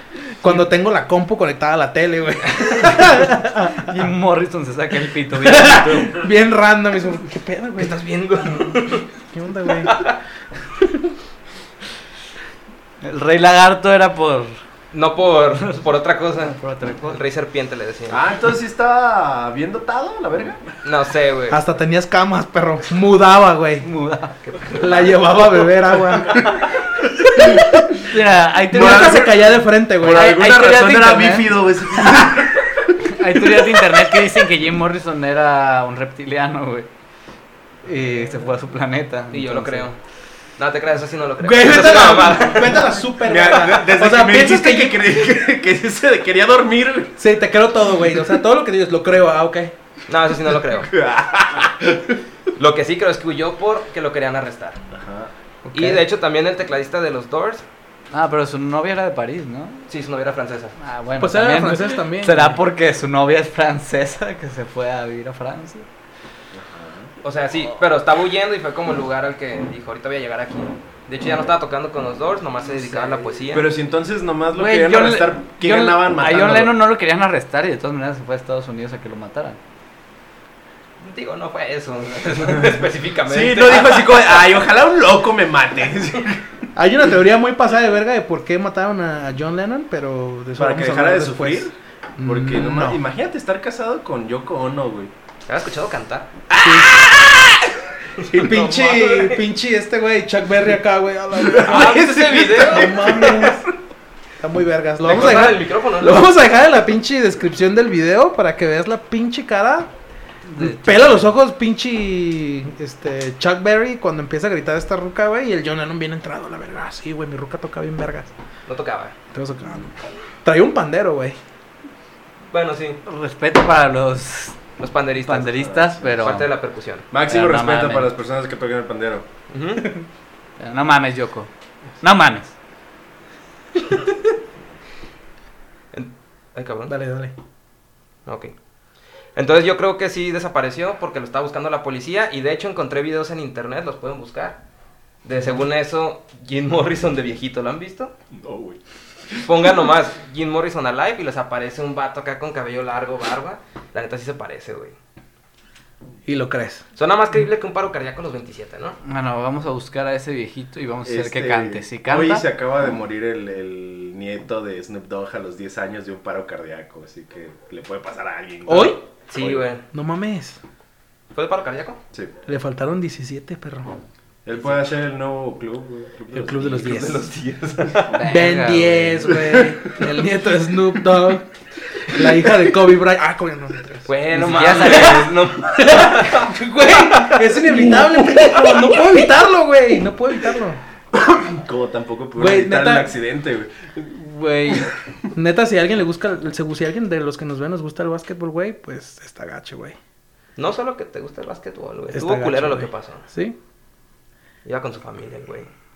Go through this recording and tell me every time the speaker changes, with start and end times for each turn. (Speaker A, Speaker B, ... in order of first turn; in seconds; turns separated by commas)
Speaker A: 0.4-4.0, Speaker B: 3.8-6.2, Speaker A: 5.4-8.7, Speaker C: 7.8-9.1, Speaker A: 9.3-10.1, Speaker C: 9.8-10.2, Speaker B: 13.0-14.6, Speaker C: 14.9-16.6, Speaker B: 16.5-17.2, Speaker C: 17.1-18.2, Speaker D: 18.1-20.6, Speaker C: 20.8-21.6, Speaker A: 21.5-23.9, Speaker B: 23.8-24.4, Speaker C: 24.4-25.2, Speaker A: 24.8-26.6, Speaker A: 27.5-28.0, Speaker B: 28.0-29.3, Speaker A: 28.7-30.3, Speaker D: 28.7-33.0, Speaker B: 30.0-31.6, Speaker B: 33.0-36.9, Speaker B: 37.8-39.9, Speaker C: 39.3-40.0, Speaker C: 40.6-43.0, Speaker A: 41.4-45.1, Speaker D: 43.2-47.2, Speaker A: 47.2-49.7, Speaker C: 50.1-50.9, Speaker D: 50.8-52.2, Speaker C: 52.6-54.8, Speaker D: 54.9-55.3, Speaker A: 55.7-56.0, Speaker C: 55.7-57.6, Speaker B: 58.1-59.9, Speaker C: 59.9-60.8, Speaker B: 60.8-65.9, Speaker A: 61.2-62.6, Speaker D: 66.5-67.1, Speaker C: 67.2-73.7, Speaker B: 72.8-73.2, Speaker D: 73.5-76.8, Speaker B: 74.5-79.6, Speaker C: 81.0-84.4, Speaker D: 83.3-86.7, Speaker A: 86.8-93.0, Speaker D: 90.6-95.1, Speaker C: 95.5-96.3, Speaker D: 96.5-98.7, Speaker A: 96.6-97.0, Speaker C: 98.2-99.4, Speaker A: 98.3-103.7, Speaker D: 101.3-103.6, Speaker C: 101.6-103.5, Speaker A: 104.4-109.9, Speaker C: 105.0-106.3, Speaker B: 110.5-111.3, Speaker A: 110.6-118.3, Speaker C: 118.7-119.2, Speaker A: 119.3-121.4, Speaker C: 122.5-123.0, Speaker B: 123.0-124.6, Speaker C: 124.8-125.6, Speaker B: 125.2-126.5, Speaker D: 125.5-126.2, Speaker C: 126.2-127.1, Speaker D: 127.1-129.3, Speaker B: 127.3-128.1, Speaker C: 129.5-129.9, Speaker B: 130.6-131.5, Speaker B: 132.0-132.5, Speaker C: 135.9-136.9, Speaker A: 136.9-137.3, Speaker C: 138.3-138.5, Speaker C: 139.4-144.6, Speaker C: 145.2-148.1, Speaker D: 148.3-148.8, Speaker C: 149.4-154.9, Speaker A: 156.3-156.8, Speaker C: 157.0-159.0, Speaker B: 159.0-162.5, Speaker D: 161.0-169.7, Speaker A: 168.7-169.0, Speaker C: 169.3-169.8, Speaker A: 169.9-170.6, Speaker C: 171.3-172.0, Speaker A: 172.5-173.9, Speaker D: 174.4-177.1, Speaker A: 176.3-177.3, Speaker C: 176.8-178.2, Speaker B: 178.1-179.4, Speaker A: 178.2-181.5, Speaker D: 179.3-179.8, Speaker A: 182.0-190.8, Speaker C: 184.1-189.2, Speaker B: 184.3-185.2, Speaker D: 191.1-195.3, Speaker A: 192.4-193.1, Speaker A: 195.3-200.0, Speaker C: 200.6-203.3, Speaker A: 202.1-203.6, Speaker C: 204.7-205.7